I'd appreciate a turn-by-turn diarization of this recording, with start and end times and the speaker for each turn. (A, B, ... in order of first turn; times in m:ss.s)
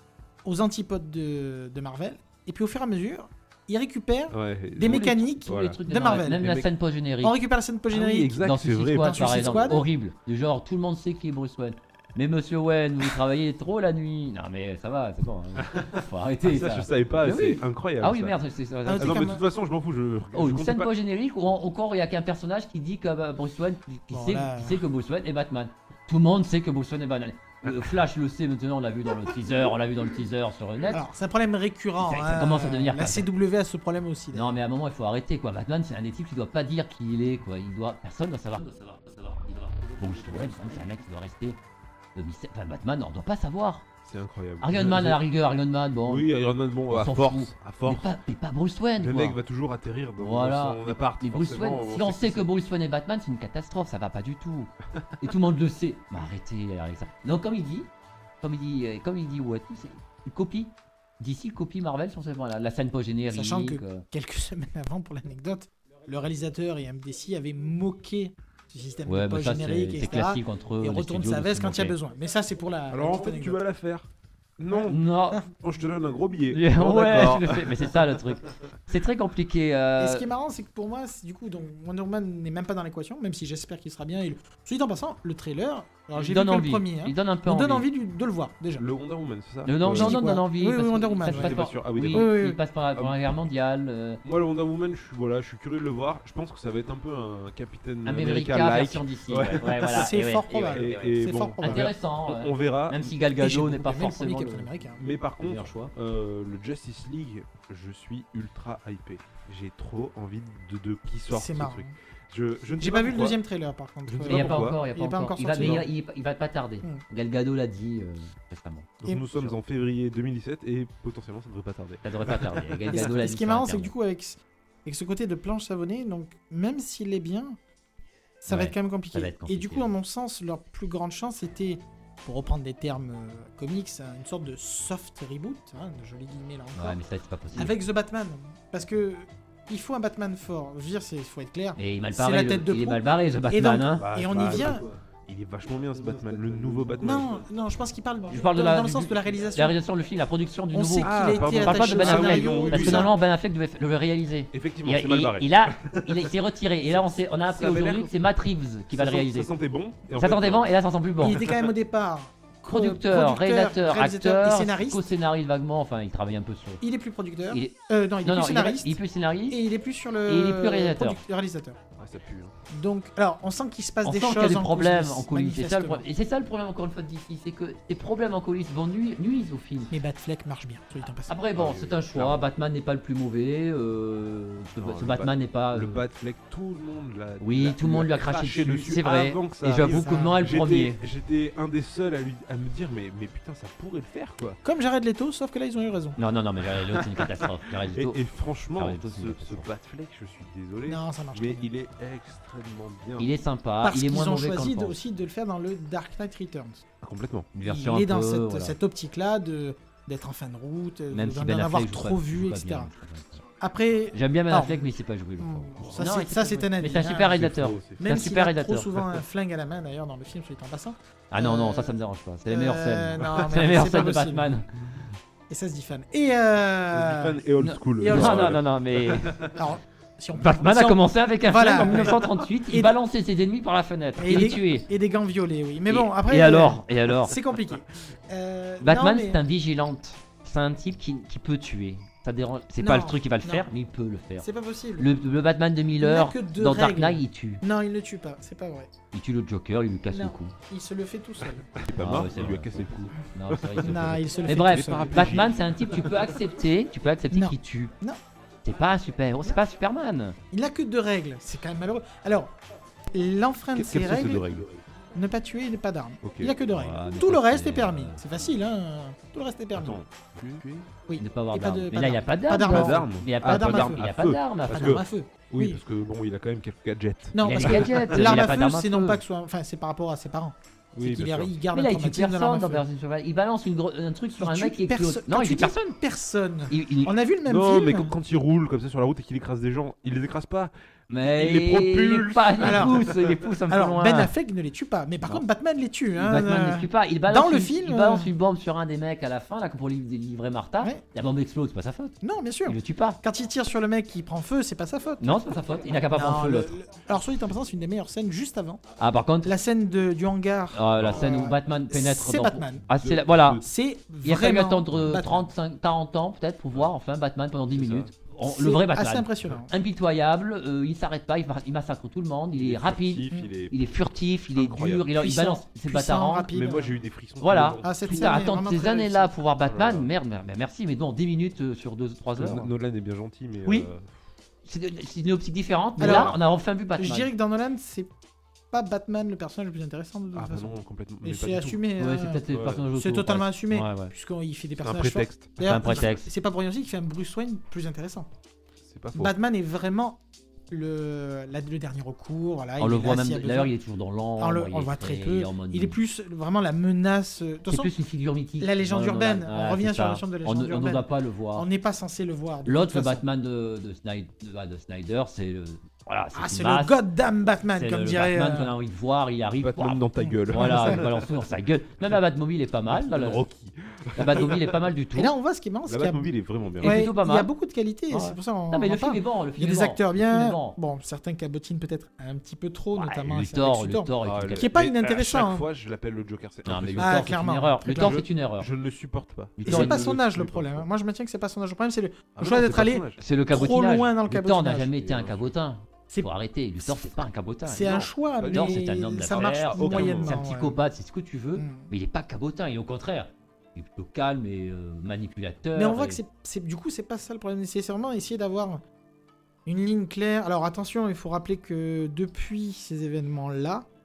0:00.4-0:06.5 A
0:04.3-0:06.7 B
0:04.8-0:07.4 C
0:07.2-0:09.9 A
0:07.9-0:09.8 B
0:08.4-0:19.3 C
0:15.6-0:18.4 B
0:18.9-0:19.4 A
0:19.0-0:20.9 B
0:20.3-0:31.0 C
0:24.1-0:24.8 A
0:30.9-0:34.5 A
0:32.0-0:33.3 C
0:34.3-0:41.6 C
0:42.2-0:43.9 C
0:44.0-0:45.2 B
0:44.6-0:46.3 C
0:46.0-0:48.1 B
0:46.9-0:49.4 C
0:49.0-0:52.5 B
0:50.2-0:57.9 C
0:58.4-1:04.0 C
1:03.3-1:13.6 A
1:09.1-1:12.0 C
1:12.9-1:18.2 B
1:14.7-1:15.5 A
1:14.9-1:15.4 C
1:16.5-1:20.2 C
1:20.0-1:28.9 A
1:26.2-1:27.8 C
1:28.8-1:30.2 B
1:29.7-1:34.2 C
1:29.8-1:32.6 A
1:31.3-1:32.3 B
1:34.2-1:40.1 B
1:38.1-1:44.7 C
1:39.9-1:41.9 A
1:40.7-1:43.1 B
1:43.4-1:45.0 A
1:45.0-1:53.4 B
1:45.4-1:45.9 C
1:51.3-1:51.9 A
1:52.8-1:55.9 A
1:54.1-1:54.8 B
1:54.2-1:58.9 C
1:55.6-1:55.8 B
1:59.0-2:03.1 B
2:02.0-2:03.9 C
2:02.9-2:07.6 A
2:08.4-2:17.0 A
2:08.5-2:09.9 C
2:16.8-2:17.8 C
2:17.6-2:24.8 A
2:21.8-2:24.1 C
2:24.0-2:27.4 B
2:27.0-2:29.8 A
2:28.3-2:39.5 C
2:30.7-2:33.1 A
2:31.0-2:33.1 B
2:34.5-2:36.3 B
2:37.5-2:38.2 B
2:38.9-2:41.7 B
2:40.1-2:41.4 C
2:41.2-2:45.1 A
2:42.7-2:46.8 C
2:46.8-2:51.8 A
2:47.5-2:49.6 C
2:50.3-2:51.2 C
2:52.0-2:52.5 B
2:52.7-2:56.0 A
2:54.0-2:59.9 C
2:59.9-3:01.4 A
3:01.3-3:06.0 C
3:01.5-3:02.4 B
3:04.8-3:14.6 B
3:07.4-3:11.0 C
3:09.9-3:10.4 A
3:14.6-3:16.2 A
3:16.2-3:18.2 C
3:16.8-3:23.3 B
3:18.8-3:19.7 C
3:20.9-3:21.7 A
3:23.2-3:25.0 C
3:23.8-3:26.8 A
3:27.0-3:27.5 B
3:27.5-3:28.8 C
3:27.6-3:32.9 A
3:31.1-3:33.4 C
3:33.6-3:44.5 A
3:34.1-3:38.9 C
3:37.2-3:38.0 B
3:41.3-3:44.7 C
3:45.5-3:47.4 A
3:46.9-3:49.6 B
3:47.6-3:49.4 C
3:48.0-3:48.6 A
3:49.5-3:53.0 A
3:50.4-3:54.9 C
3:54.2-3:59.4 A
3:55.9-3:57.4 C
3:58.8-4:04.5 C
4:02.8-4:03.7 A
4:04.4-4:05.1 A
4:05.0-4:07.6 C
4:06.0-4:08.9 A
4:09.1-4:10.6 C
4:10.1-4:11.8 A
4:11.8-4:16.4 B
4:11.9-4:12.8 C
4:13.3-4:17.9 C
4:13.8-4:15.5 A
4:17.3-4:18.2 A
4:18.6-4:20.4 C
4:20.5-4:22.5 A
4:23.1-4:24.6 A
4:23.8-4:24.7 B
4:25.1-4:30.0 A
4:26.2-4:26.6 B
4:26.7-4:28.2 C
4:29.7-4:30.9 B
4:31.1-4:34.1 A
4:31.2-4:35.0 C
4:32.6-4:38.4 B
4:34.7-4:35.8 A
4:37.3-4:42.8 A
4:37.4-4:39.2 C
4:40.9-4:41.5 B
4:41.7-4:45.9 C
4:44.4-4:48.1 A
4:46.7-4:47.1 C
4:47.5-4:53.4 B
4:51.1-4:54.3 C
4:52.6-4:53.0 A
4:53.7-4:58.3 A
4:56.2-5:02.2 C
5:02.2-5:08.8 A
5:02.7-5:03.2 C
5:05.2-5:06.7 C
5:09.0-5:09.5 C
5:09.4-5:12.8 A
5:10.7-5:13.6 C
5:11.0-5:11.3 B
5:12.9-5:13.7 B
5:13.6-5:15.5 A
5:14.2-5:26.5 C
5:17.7-5:18.1 B
5:18.4-5:19.7 A
5:22.5-5:23.8 B
5:24.5-5:25.1 B
5:25.2-5:27.0 A
5:26.5-5:28.4 B
5:27.4-5:32.7 C
5:27.8-5:29.4 A
5:29.7-5:30.1 B
5:32.4-5:34.2 B
5:34.6-5:37.3 C
5:36.0-5:36.4 A
5:36.0-5:36.4 B
5:37.0-5:38.1 A
5:38.7-5:48.3 A
5:40.3-5:41.8 B
5:42.0-5:44.1 C
5:42.5-5:42.8 B
5:44.8-5:45.5 B
5:45.6-5:46.3 C
5:48.8-5:49.4 B
5:49.1-5:50.2 A
5:50.7-5:53.7 A
5:52.8-5:56.0 C
5:54.4-5:57.9 A
5:57.7-6:01.7 C
5:58.6-6:03.2 A
6:02.6-6:07.0 C
6:06.4-6:08.7 A
6:07.8-6:13.4 C
6:09.6-6:11.3 B
6:10.2-6:11.0 A
6:12.9-6:14.9 B
6:14.2-6:15.3 C
6:15.2-6:25.7 A
6:15.9-6:17.1 B
6:16.8-6:17.5 C
6:18.1-6:20.8 C
6:22.9-6:24.7 C
6:24.2-6:27.2 B
6:26.7-6:28.7 C
6:27.0-6:28.2 A
6:27.9-6:30.9 B
6:29.6-6:30.1 C
6:29.7-6:35.0 A
6:32.4-6:33.2 B
6:33.2-6:46.2 C
6:35.0-6:35.5 B
6:36.1-6:40.8 A
6:37.8-6:40.4 B
6:41.6-6:41.9 A
6:45.8-6:48.8 A
6:49.7-6:53.9 A